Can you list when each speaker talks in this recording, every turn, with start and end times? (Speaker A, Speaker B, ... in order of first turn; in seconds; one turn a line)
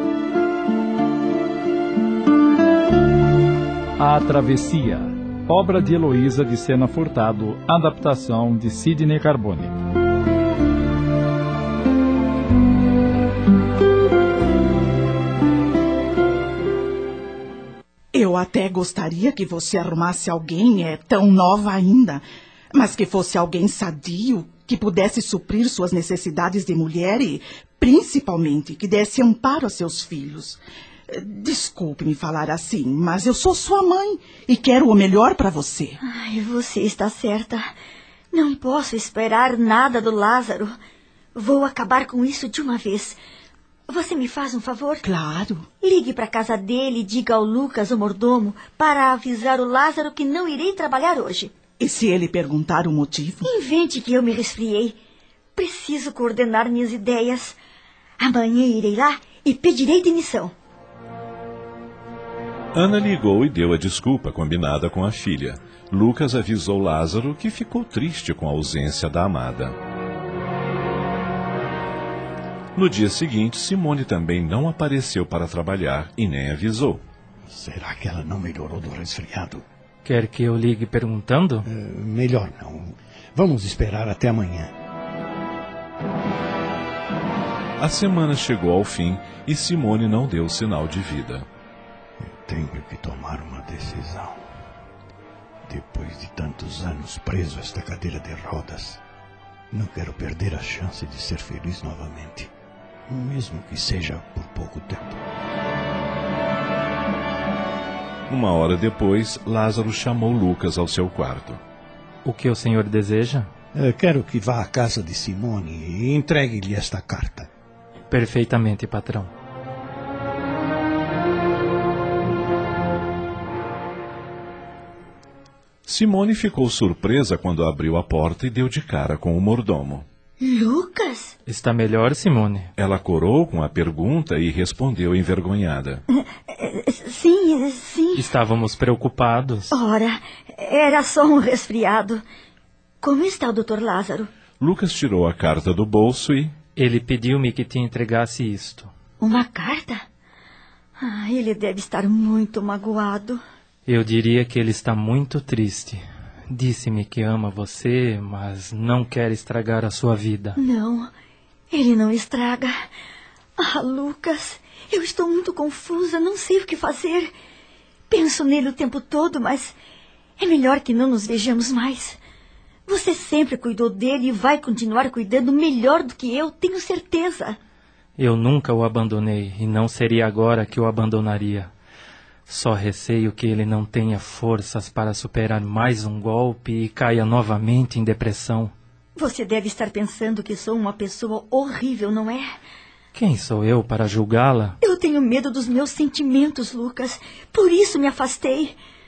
Speaker A: 4.0-9.8
Speaker B: 18.1-36.0
Speaker C: 36.0-37.7
Speaker C: 38.3-40.7
Speaker C: 41.4-43.2
Speaker C: 43.9-45.0
Speaker B: 45.0-45.7
Speaker C: 45.8-51.5
Speaker B: 51.8-53.5
Speaker C: 53.5-55.0
Speaker C: 55.6-57.6
Speaker C: 58.2-60.5
Speaker D: 62.7-69.8
Speaker D: 72.8-77.0
Speaker E: 77.5-79.6
Speaker F: 80.0-81.7
Speaker E: 81.7-84.7
Speaker D: 87.8-91.5
Speaker E: 92.2-94.4
Speaker E: 95.7-99.0
Speaker E: 99.7-102.5
Speaker E: 103.1-105.2
Speaker D: 108.3-111.6
Speaker F: 112.2-113.5
Speaker E: 113.7-117.5
Speaker F: 118.1-119.3
Speaker D: 125.9-130.1
Speaker C: 130.4-131.3
Speaker F: 131.5-132.7
Speaker D: 132.8-136.0
Speaker C: 136.1-138.3
Speaker F: 138.2-139.7
Speaker C: 139.7-142.2
Speaker C: 143.0-144.3
Speaker D: 144.6-146.6
Speaker F: 146.8-148.9
Speaker C: 149.2-150.0
Speaker C: 151.0-153.4
Speaker F: 153.9-160.6
Speaker C: 160.6-161.1
Speaker C: 161.7-162.7
Speaker C: 163.6-167.3
Speaker C: 168.1-169.8
Speaker C: 170.4-172.2
Speaker C: 172.9-177.6
Speaker F: 178.2-181.7
Speaker F: 182.5-188.7
Speaker C: 189.2-192.5
Speaker F: 193.1-194.8
Speaker C: 194.8-198.8